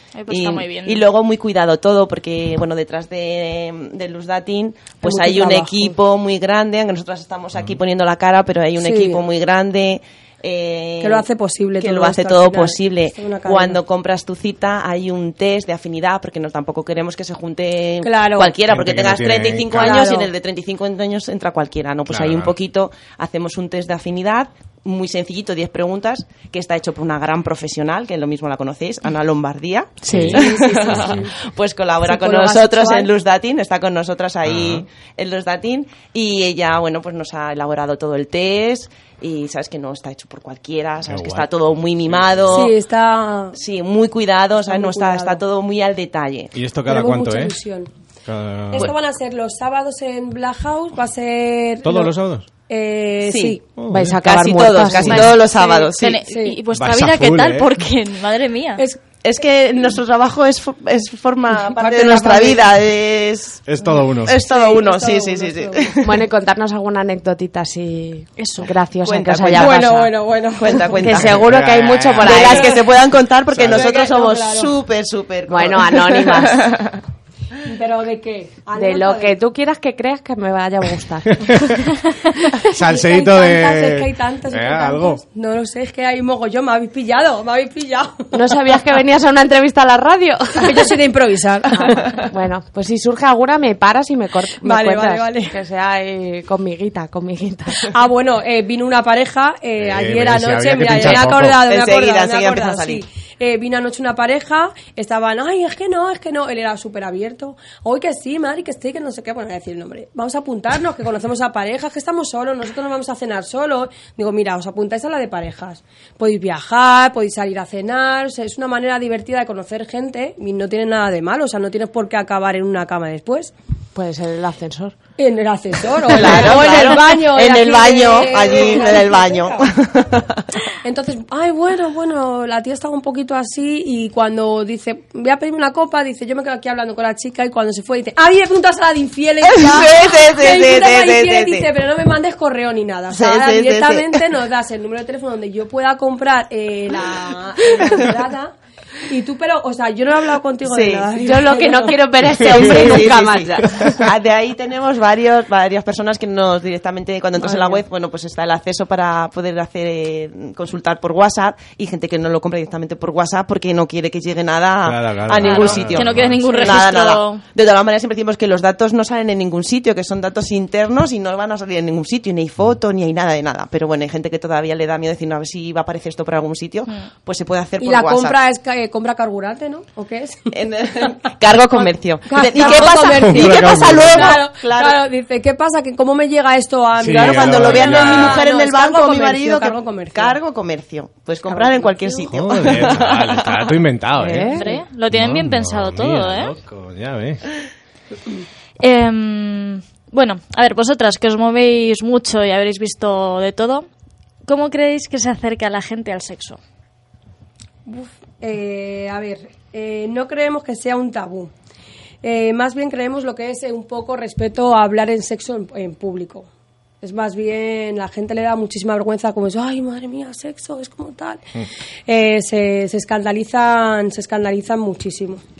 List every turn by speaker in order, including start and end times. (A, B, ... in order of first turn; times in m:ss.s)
0:00.2-0:01.0 A
0:00.3-0:11.3 B
0:05.0-0:06.0 C
0:08.8-0:09.2 C
0:11.0-0:13.8 C
0:11.8-0:42.7 B
0:18.0-0:18.5 C
0:18.7-0:20.1 D
0:19.7-0:20.3 C
0:22.1-0:22.5 D
0:30.0-0:30.4 E
0:30.1-0:30.4 D
0:30.3-0:31.3 C
0:30.9-0:31.2 D
0:32.0-0:33.1 C
0:34.4-0:34.9 D
0:41.1-0:41.5 D
0:42.0-0:42.6 D
0:42.5-0:43.6 C
0:43.6-0:46.5 B
0:44.7-0:45.4 C
0:46.5-0:47.6 D
0:46.9-0:47.9 C
0:48.3-0:48.9 D
0:48.7-0:52.1 C
0:51.8-0:52.5 D
0:52.7-0:53.6 C
0:53.2-0:53.6 B
0:53.8-0:54.2 D
0:53.9-0:55.3 E
0:54.2-0:56.2 B
0:55.5-0:56.6 C
0:56.0-0:58.8 A
0:56.7-0:57.8 D
0:59.2-1:03.6 B
1:01.8-1:02.7 C
1:03.7-1:04.4 D
1:04.2-1:06.2 B
1:04.2-1:05.9 C
1:06.0-1:10.1 E
1:08.4-1:08.7 A
1:09.0-1:09.8 B
1:09.6-1:11.0 C
1:10.6-1:11.5 B
1:11.0-1:12.8 E
1:11.2-1:12.5 D
1:12.2-1:17.0 B
1:12.4-1:12.7 C
1:13.5-1:13.9 D
1:13.6-1:14.7 C
1:15.5-1:16.8 E
1:17.6-1:19.4 C
1:18.7-1:21.7 E
1:21.4-1:21.8 D
1:22.7-1:25.2 D
1:22.8-1:28.3 C
1:28.3-1:30.9 E
1:30.6-1:32.1 C
1:31.9-1:37.9 E
1:34.6-1:35.6 C
1:37.9-2:03.5 C
1:39.8-1:41.6 D
1:41.6-1:43.0 B
2:04.0-2:05.0 E
2:05.2-2:09.7 C
2:06.0-2:10.4 B
2:06.3-2:06.7 E
2:10.8-2:28.6 C
2:19.4-2:21.7 B
2:23.1-2:24.1 B
2:29.1-2:32.0 C
2:30.6-2:31.1 B
2:31.2-2:33.8 E
2:32.4-2:58.4 B
2:37.4-2:37.8 C
2:44.8-2:46.4 D
2:45.4-2:47.4 A
2:46.5-2:46.8 C
2:57.8-3:00.5 C
3:00.5-3:05.0 B
3:02.3-3:10.4 C
3:02.9-3:04.4 D
3:07.0-3:08.4 D
3:07.1-3:13.7 B
3:11.5-3:12.2 C
3:12.3-3:17.4 D
3:14.2-3:14.7 E
3:14.6-3:16.5 A
3:18.8-3:23.9 A
3:24.5-3:26.6 A
3:27.9-3:31.5 C
3:32.2-3:36.5 C
3:37.0-3:41.4 C
3:42.1-3:45.4 C